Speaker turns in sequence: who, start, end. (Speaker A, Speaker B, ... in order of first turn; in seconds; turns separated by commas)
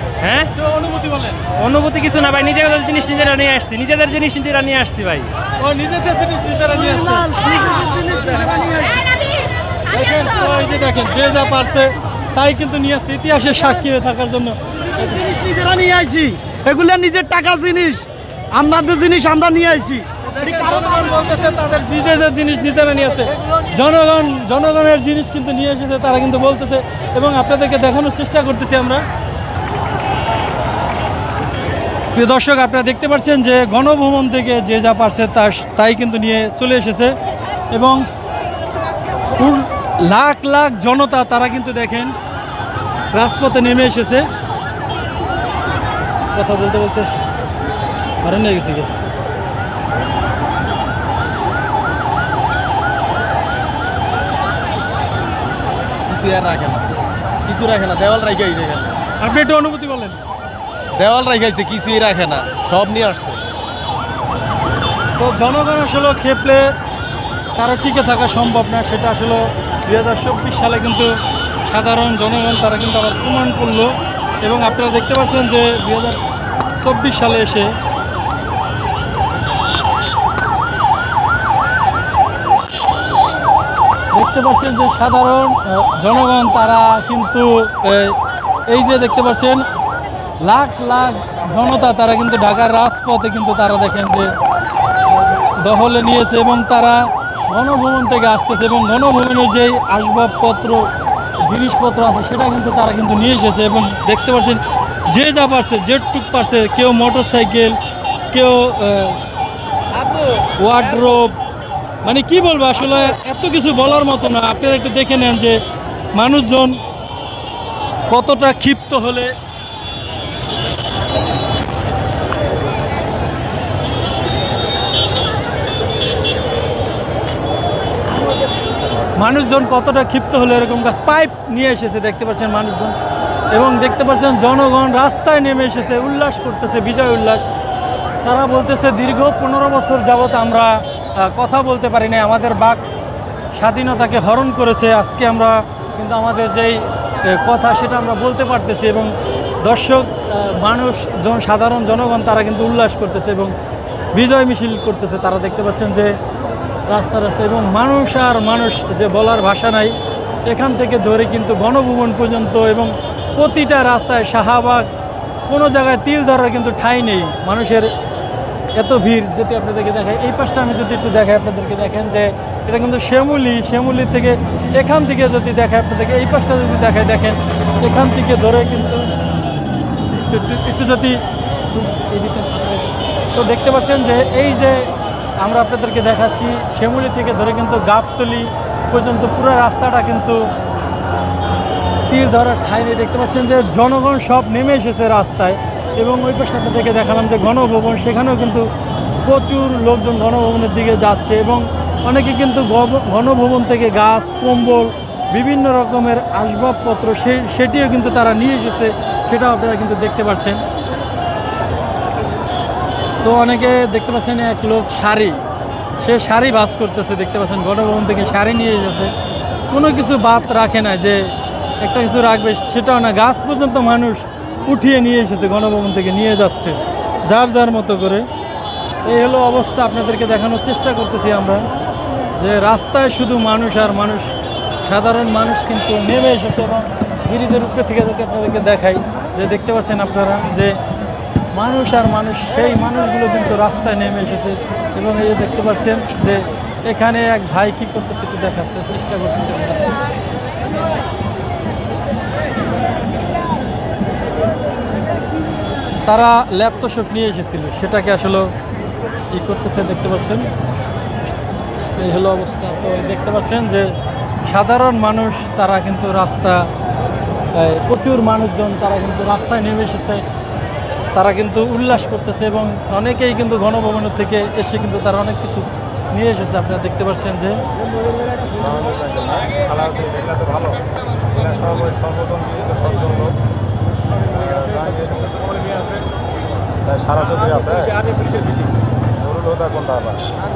Speaker A: 0.2-0.5, Speaker B: 0.2-0.5, Speaker C: 0.6-1.4, Speaker A: 1.6-5.3, Speaker C: 5.6-7.3, Speaker D: 6.7-9.1, Speaker C: 9.9-14.6, Speaker D: 14.9-21.2, Speaker C: 20.2-29.0, Speaker C: 32.1-37.1, Speaker C: 37.7-38.0, Speaker C: 39.4-42.1, Speaker C: 43.1-44.3, Speaker C: 46.3-47.1, Speaker C: 48.2-48.9, Speaker B: 56.1-56.9, Speaker B: 57.4-59.0, Speaker D: 57.6-58.5, Speaker C: 59.2-60.2, Speaker B: 60.9-63.4, Speaker D: 61.3-62.2, Speaker C: 65.2-66.7, Speaker C: 67.5-71.1, Speaker C: 71.7-76.2, Speaker C: 76.7-77.8, Speaker C: 84.1-89.7, Speaker C: 90.4-94.3, Speaker C: 95.6-100.9, Speaker C: 101.4-107.8, Speaker C: 108.3-109.2, Speaker D: 109.9-110.2, Speaker C: 110.6-111.3, Speaker C: 112.0-115.6, Speaker C: 116.1-116.8, Speaker C: 118.1-119.3, Speaker C: 129.1-132.9, Speaker C: 133.5-137.4, Speaker C: 138.2-142.8, Speaker C: 143.6-153.5, Speaker C: 154.1-156.1, Speaker C: 156.9-159.9, Speaker C: 160.5-164.9, Speaker C: 165.4-167.9, Speaker C: 168.8-179.1, Speaker C: 180.1-184.9, Speaker C: 185.4-190.4, Speaker C: 192.1-198.7, Speaker C: 199.2-210.6, Speaker C: 213.2-215.4, Speaker C: 216.0-219.1, Speaker C: 219.7-226.8, Speaker C: 227.3-228.2, Speaker C: 229.0-231.7, Speaker C: 232.4-234.3, Speaker C: 234.8-240.8, Speaker C: 241.5-249.9, Speaker C: 256.1-258.5, Speaker C: 259.3-260.5, Speaker C: 261.9-263.9, Speaker C: 264.4-266.7, Speaker C: 267.5-270.2, Speaker C: 271.1-277.6, Speaker E: 278.6-283.3, Speaker E: 284.3-285.4, Speaker D: 285.4-286.0, Speaker E: 286.8-288.0, Speaker D: 288.0-288.7, Speaker E: 289.2-290.2